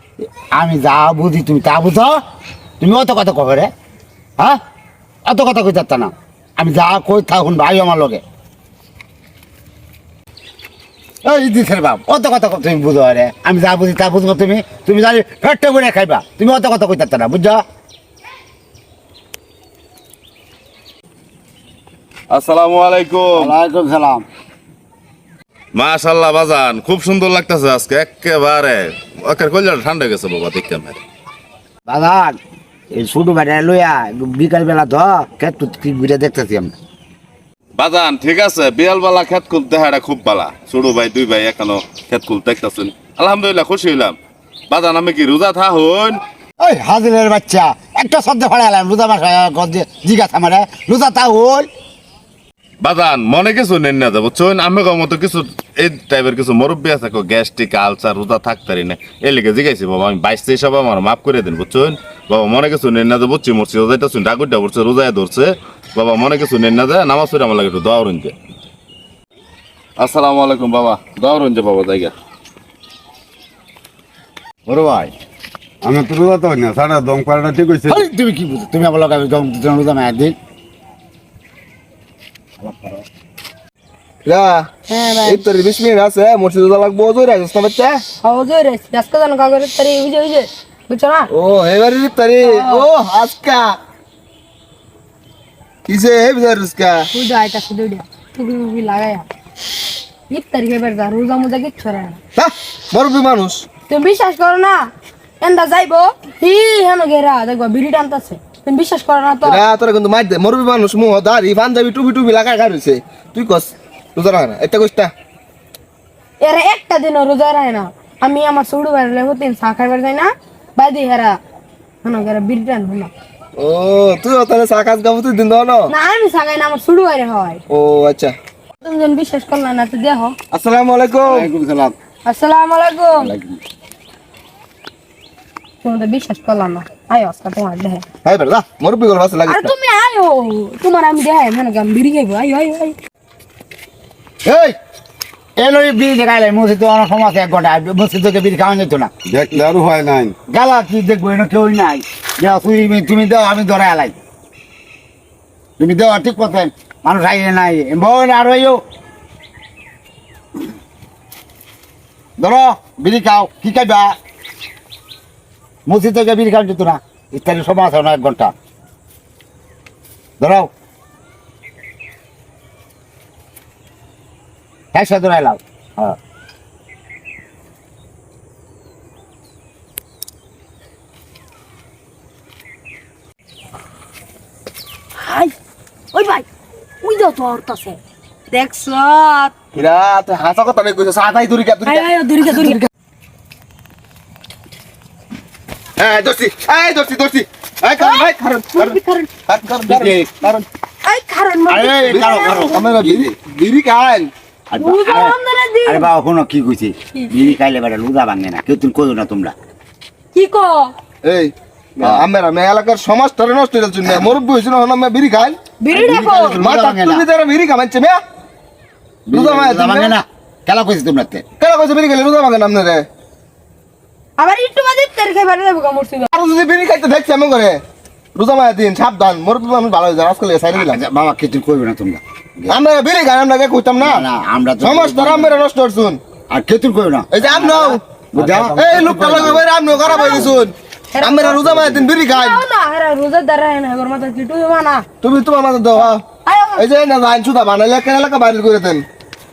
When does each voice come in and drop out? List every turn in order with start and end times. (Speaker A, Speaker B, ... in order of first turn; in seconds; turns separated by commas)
Speaker A: 0.5-2.2, Speaker A: 2.8-3.7, Speaker A: 5.2-8.2, Speaker A: 11.2-17.6, Speaker B: 22.3-23.5, Speaker A: 23.3-24.2, Speaker B: 25.7-31.0, Speaker A: 31.9-32.4, Speaker A: 32.9-36.7, Speaker B: 37.8-44.1, Speaker B: 44.7-46.2, Speaker A: 46.6-51.7, Speaker B: 52.8-68.3, Speaker B: 70.0-72.1, Speaker A: 74.7-75.1, Speaker C: 75.8-78.0, Speaker A: 77.9-80.3, Speaker A: 82.6-83.0, Speaker D: 84.2-84.7, Speaker E: 84.9-85.4, Speaker D: 85.2-88.0, Speaker E: 88.2-91.3, Speaker D: 91.3-93.7, Speaker E: 92.4-92.9, Speaker D: 95.9-97.0, Speaker E: 97.1-99.2, Speaker E: 100.3-102.2, Speaker D: 102.3-103.7, Speaker E: 103.9-104.9, Speaker E: 105.4-109.6, Speaker D: 109.4-115.1, Speaker E: 116.4-121.3, Speaker E: 122.0-123.1, Speaker D: 123.6-125.9, Speaker E: 125.9-127.6, Speaker D: 127.7-128.3, Speaker E: 128.8-130.3, Speaker D: 130.5-131.4, Speaker A: 131.2-131.9, Speaker E: 132.2-133.3, Speaker A: 133.2-133.6, Speaker E: 135.8-138.0, Speaker D: 138.2-139.7, Speaker E: 139.5-142.9, Speaker A: 144.4-144.8, Speaker A: 145.6-149.1, Speaker C: 149.3-150.4, Speaker A: 150.5-154.2, Speaker A: 155.8-158.8, Speaker A: 162.4-164.1, Speaker A: 165.8-168.5, Speaker A: 170.4-170.7, Speaker A: 174.9-176.2, Speaker E: 185.2-185.5, Speaker E: 186.1-186.4, Speaker E: 187.0-188.0, Speaker E: 188.5-189.5, Speaker D: 189.7-192.8, Speaker E: 191.8-192.8, Speaker D: 196.0-200.6, Speaker E: 198.0-199.3, Speaker A: 199.9-200.3, Speaker E: 201.0-202.8, Speaker A: 201.7-202.8, Speaker D: 202.7-204.3, Speaker A: 204.7-209.5, Speaker E: 204.8-206.1, Speaker E: 210.3-210.9, Speaker D: 211.2-215.6, Speaker E: 215.8-216.6, Speaker A: 215.9-217.2, Speaker D: 216.3-218.2, Speaker A: 219.3-221.4, Speaker D: 219.3-220.1, Speaker D: 221.6-223.0, Speaker E: 224.4-226.3, Speaker D: 226.3-227.8, Speaker D: 228.3-231.0, Speaker A: 230.7-232.7, Speaker D: 232.7-234.2, Speaker A: 234.0-235.6, Speaker D: 234.8-236.2, Speaker A: 236.5-239.6, Speaker D: 237.3-242.6, Speaker C: 238.4-239.9, Speaker E: 240.1-240.6, Speaker E: 241.1-241.6, Speaker E: 242.2-245.0, Speaker D: 245.2-246.2, Speaker E: 246.4-246.8, Speaker D: 246.8-249.1